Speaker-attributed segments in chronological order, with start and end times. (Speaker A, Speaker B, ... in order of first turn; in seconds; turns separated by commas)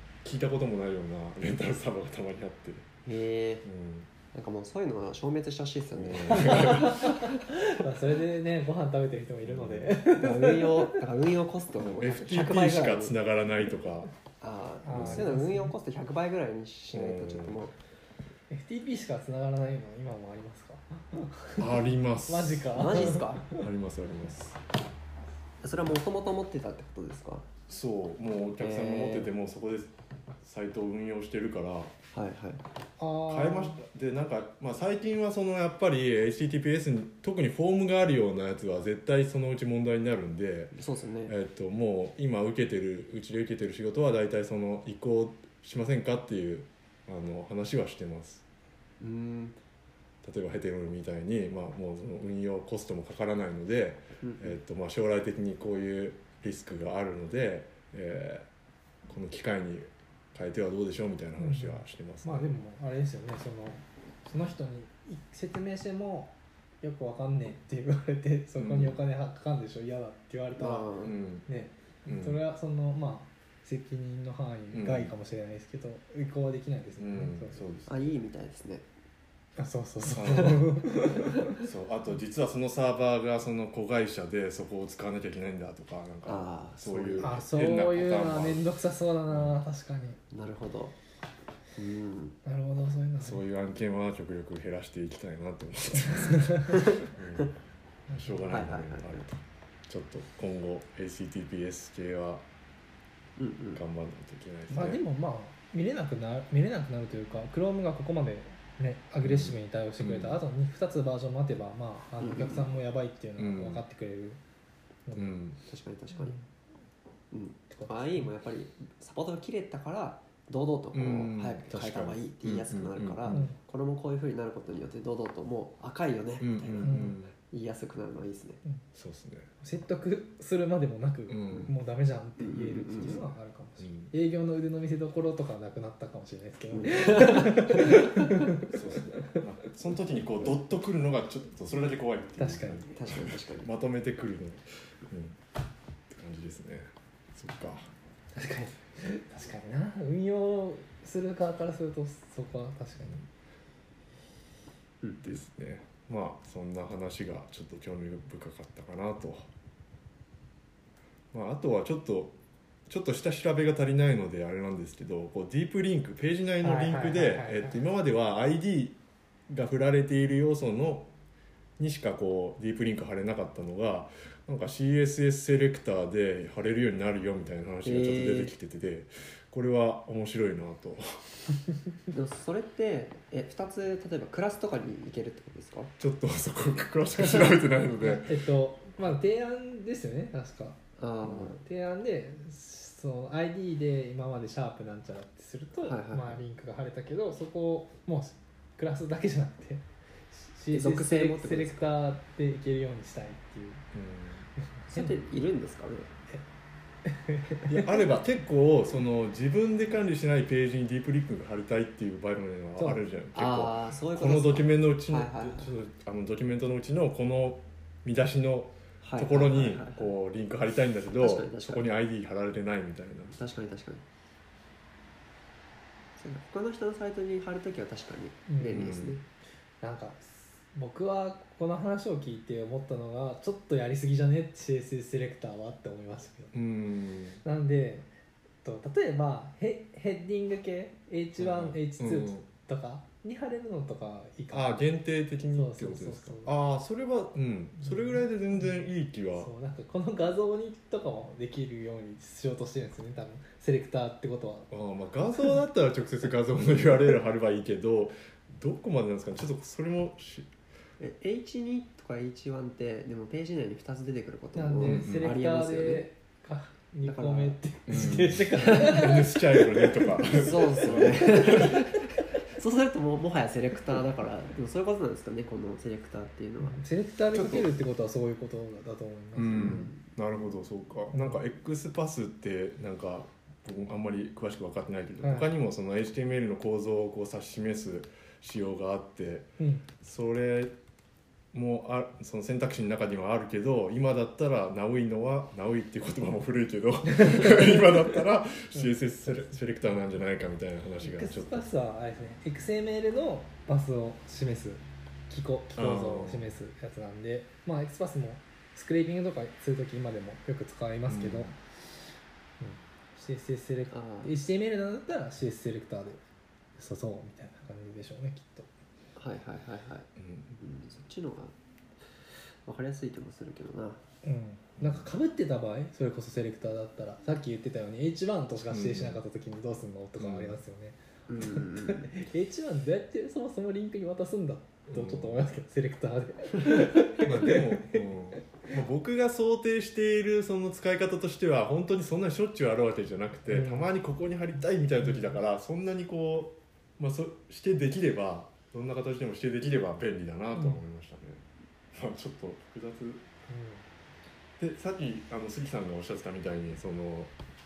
Speaker A: 0.2-2.9, Speaker B: 3.0-3.7, Speaker A: 3.6-4.1, Speaker B: 4.3-7.4, Speaker A: 6.0-7.0, Speaker C: 6.4-11.0, Speaker A: 9.4-9.9, Speaker B: 10.1-13.2, Speaker A: 11.8-14.1, Speaker B: 14.4-17.7, Speaker C: 14.8-15.7, Speaker A: 14.9-15.3, Speaker A: 16.9-17.7, Speaker C: 18.5-23.7, Speaker A: 21.6-24.6, Speaker B: 22.8-23.4, Speaker B: 25.6-27.5, Speaker A: 27.7-29.9, Speaker B: 28.6-29.3, Speaker A: 30.4-31.9, Speaker B: 32.1-32.6, Speaker C: 33.0-33.8, Speaker A: 33.3-40.8, Speaker B: 40.7-41.4, Speaker A: 41.3-48.4, Speaker B: 49.0-49.6, Speaker A: 50.2-58.5, Speaker B: 54.2-54.6, Speaker A: 59.1-62.6, Speaker C: 61.4-77.6, Speaker A: 68.6-69.0, Speaker B: 70.6-71.2, Speaker A: 71.0-71.5, Speaker A: 72.1-72.4, Speaker A: 74.7-75.1, Speaker A: 77.0-77.9, Speaker B: 77.9-78.8, Speaker C: 79.6-81.6, Speaker A: 80.0-80.9, Speaker A: 81.5-88.7, Speaker B: 86.3-87.3, Speaker C: 87.2-90.2, Speaker A: 89.3-89.6, Speaker B: 90.3-91.0, Speaker B: 91.8-92.4, Speaker C: 92.5-93.4, Speaker A: 93.2-97.6, Speaker C: 96.1-96.8, Speaker B: 96.7-97.5, Speaker A: 98.1-102.5, Speaker B: 98.5-99.2, Speaker B: 103.4-103.8, Speaker A: 103.8-105.0, Speaker C: 104.7-114.4, Speaker A: 109.2-110.4, Speaker B: 112.2-112.7, Speaker A: 113.4-113.8, Speaker C: 115.1-115.4, Speaker A: 115.1-115.6, Speaker B: 115.7-116.4, Speaker C: 116.1-116.5, Speaker B: 117.3-128.6, Speaker C: 117.7-118.3, Speaker A: 120.9-123.5, Speaker C: 123.3-123.6, Speaker A: 126.4-127.3, Speaker C: 126.8-127.2, Speaker A: 128.9-129.5, Speaker C: 129.6-139.4, Speaker A: 131.3-131.7, Speaker B: 132.4-133.2, Speaker A: 133.8-134.1, Speaker B: 136.7-138.1, Speaker A: 138.7-145.4, Speaker C: 142.4-142.9, Speaker B: 142.9-143.7, Speaker A: 146.1-147.9, Speaker C: 148.3-153.2, Speaker A: 155.2-159.5, Speaker A: 161.3-162.4, Speaker A: 162.9-169.0, Speaker C: 166.6-167.8, Speaker A: 169.5-171.1, Speaker A: 171.8-181.4, Speaker B: 177.8-178.6, Speaker B: 182.1-185.9, Speaker A: 186.0-188.4, Speaker C: 187.3-203.8, Speaker B: 191.0-191.6, Speaker B: 195.8-196.4, Speaker B: 200.7-201.9, Speaker A: 203.9-204.5, Speaker C: 204.6-205.2, Speaker B: 204.9-206.1, Speaker C: 207.1-208.2, Speaker A: 207.7-223.3, Speaker C: 212.8-213.1, Speaker B: 213.3-215.7, Speaker B: 219.0-220.1, Speaker B: 221.2-221.9, Speaker B: 223.3-224.0, Speaker B: 226.2-229.2, Speaker C: 228.5-229.0, Speaker A: 228.7-229.2, Speaker C: 229.8-236.6, Speaker A: 236.5-237.4, Speaker C: 237.4-238.1, Speaker C: 238.6-244.8, Speaker A: 241.4-242.4, Speaker A: 244.5-249.5, Speaker C: 245.5-246.5, Speaker C: 247.8-254.7, Speaker A: 254.7-260.5, Speaker B: 261.0-266.1, Speaker C: 264.6-271.6, Speaker A: 264.8-265.4, Speaker B: 267.0-269.1, Speaker A: 267.9-271.8, Speaker B: 270.2-276.8, Speaker C: 276.6-279.9, Speaker A: 277.3-277.7, Speaker A: 279.4-290.8, Speaker B: 279.6-280.0, Speaker C: 281.1-281.4, Speaker C: 285.2-285.5, Speaker C: 289.6-289.9, Speaker A: 291.5-301.7, Speaker C: 297.1-298.2, Speaker C: 298.7-299.6, Speaker C: 301.0-311.6, Speaker A: 305.8-306.6, Speaker A: 311.1-311.5, Speaker C: 312.6-316.2, Speaker B: 313.9-314.3, Speaker C: 316.8-318.7, Speaker B: 319.2-320.1, Speaker A: 320.2-320.6, Speaker B: 320.6-321.5, Speaker B: 322.7-324.0, Speaker C: 324.2-338.4, Speaker A: 324.8-325.1, Speaker A: 328.7-329.2, Speaker A: 330.2-330.6, Speaker B: 331.3-332.2, Speaker A: 334.9-335.5, Speaker A: 337.2-353.3, Speaker C: 343.5-343.9, Speaker C: 345.0-345.3, Speaker C: 353.5-353.8, Speaker A: 354.6-357.3